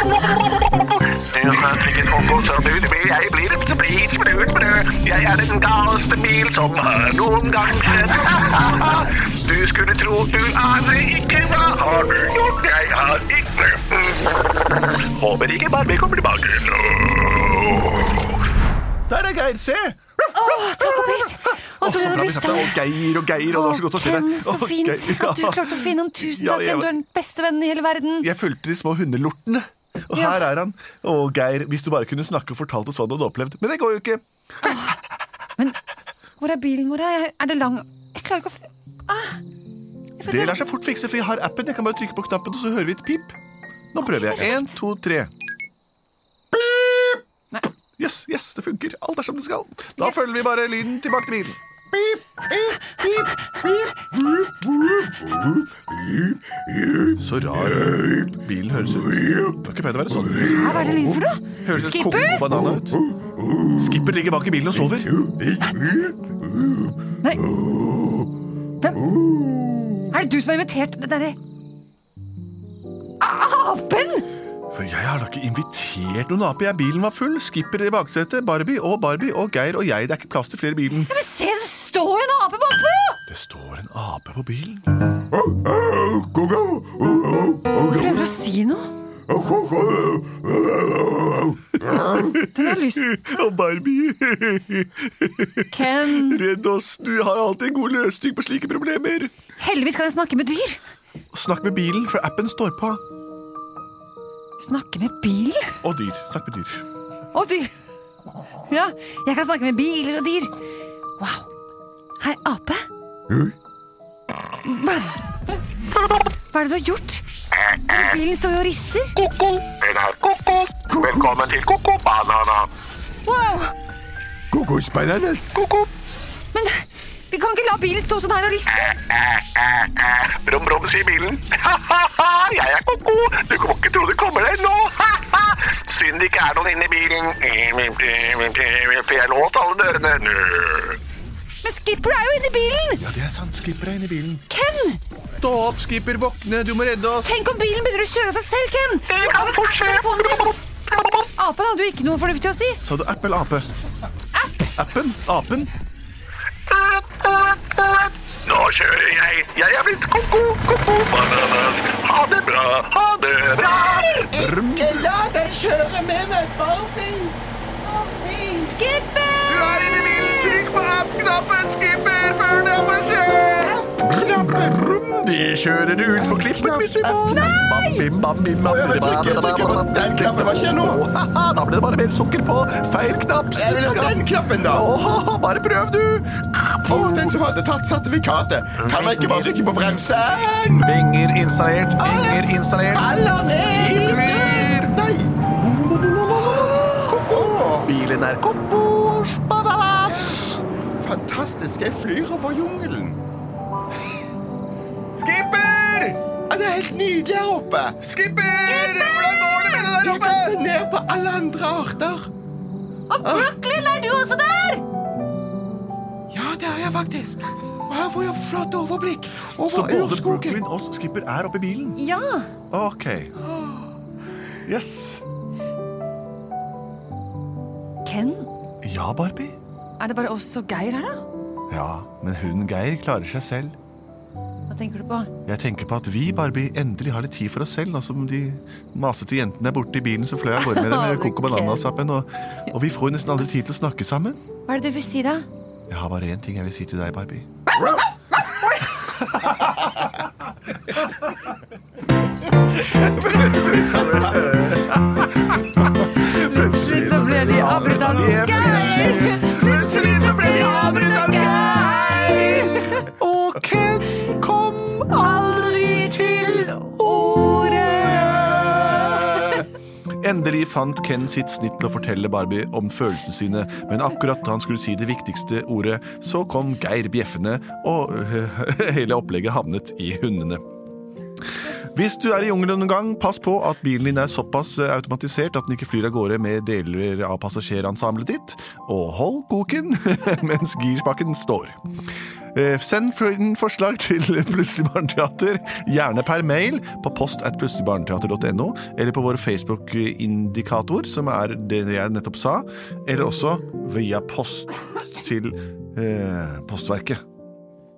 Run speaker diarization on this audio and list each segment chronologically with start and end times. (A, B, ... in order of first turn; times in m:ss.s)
0:01.2-0:14.6 A
0:15.2-0:15.7 A
0:15.2-0:15.7 B
0:16.3-0:17.9 A
0:19.1-0:20.0 B
0:20.3-0:22.8 C
0:21.7-0:26.9 B
0:23.4-0:28.3 C
0:28.2-0:34.2 B
0:30.1-0:30.5 C
0:34.6-0:35.0 C
0:36.4-0:39.4 C
0:40.2-0:40.6 C
0:40.2-0:43.4 B
0:43.9-0:45.3 B
0:44.0-0:44.8 C
0:46.7-0:47.1 B
0:48.0-0:51.6 B
0:50.0-0:50.4 C
0:52.0-0:53.3 D
0:57.2-1:03.1 B
1:00.4-1:02.6 C
1:03.7-1:05.3 B
1:08.8-1:09.1 C
1:10.1-1:11.4 C
1:13.2-1:14.3 C
1:14.7-1:21.1 B
1:21.1-1:23.2 C
1:23.3-1:24.9 B
1:25.8-1:27.7 D
1:27.8-1:28.9 C
1:29.4-1:31.1 D
1:31.5-1:39.3 B
1:32.5-1:33.1 C
1:35.7-1:36.4 C
1:39.6-1:40.8 C
1:41.3-1:43.0 B
1:44.6-1:45.8 C
1:45.8-1:46.8 B
1:47.3-1:47.7 C
1:48.7-1:50.5 C
1:51.2-1:51.5 C
1:52.2-1:52.8 C
1:54.6-1:55.2 C
1:56.5-1:57.2 C
1:57.8-1:59.2 C
1:59.4-2:02.7 A
2:00.9-2:01.3 D
2:03.2-2:03.7 C
2:04.5-2:05.7 D
2:06.5-2:08.9 C
2:09.0-2:21.0 A
2:21.6-2:23.0 C
2:23.0-2:24.4 B
2:24.5-2:25.0 C
2:25.4-2:27.3 B
2:27.2-2:30.6 C
2:29.2-2:30.0 A
2:31.4-2:32.8 C
2:32.8-2:33.7 B
2:34.3-2:34.7 C
2:34.8-2:35.7 B
2:36.7-2:44.3 A
2:43.6-2:48.7 D
2:44.3-2:45.1 B
2:48.6-2:50.6 C
2:49.5-3:07.4 B
2:53.8-2:54.8 D
2:56.2-2:57.5 D
2:57.2-2:58.0 C
2:58.6-3:01.0 D
3:03.5-3:04.9 D
3:06.9-3:10.9 D
3:08.8-3:09.6 B
3:10.8-3:13.1 B
3:12.0-3:15.4 D
3:13.6-3:15.0 B
3:15.5-3:20.6 B
3:16.5-3:17.9 D
3:20.1-3:20.4 D
3:21.0-3:23.2 D
3:25.1-3:26.2 B
3:26.5-3:28.0 D
3:28.0-3:30.6 B
3:28.6-3:29.8 C
3:30.0-3:32.3 D
3:33.1-3:34.8 C
3:33.2-3:33.5 D
3:36.3-3:40.6 D
3:39.6-3:42.0 B
3:42.0-3:42.5 C
3:42.7-3:43.3 B
3:43.4-3:43.9 D
3:44.6-3:45.2 B
3:48.0-3:48.5 C
3:48.8-3:49.6 B
3:50.0-3:51.2 C
3:51.7-3:53.8 B
3:54.7-3:55.3 C
3:55.4-4:04.4 B
4:00.6-4:01.9 C
4:04.7-4:05.5 C
4:05.9-4:07.5 B
4:12.9-4:29.4 B
4:14.0-4:14.2 D
4:16.2-4:23.1 C
4:18.6-4:19.1 D
4:25.2-4:29.6 C
4:30.2-4:40.6 B
4:41.9-4:51.8 B
4:52.5-5:07.2 B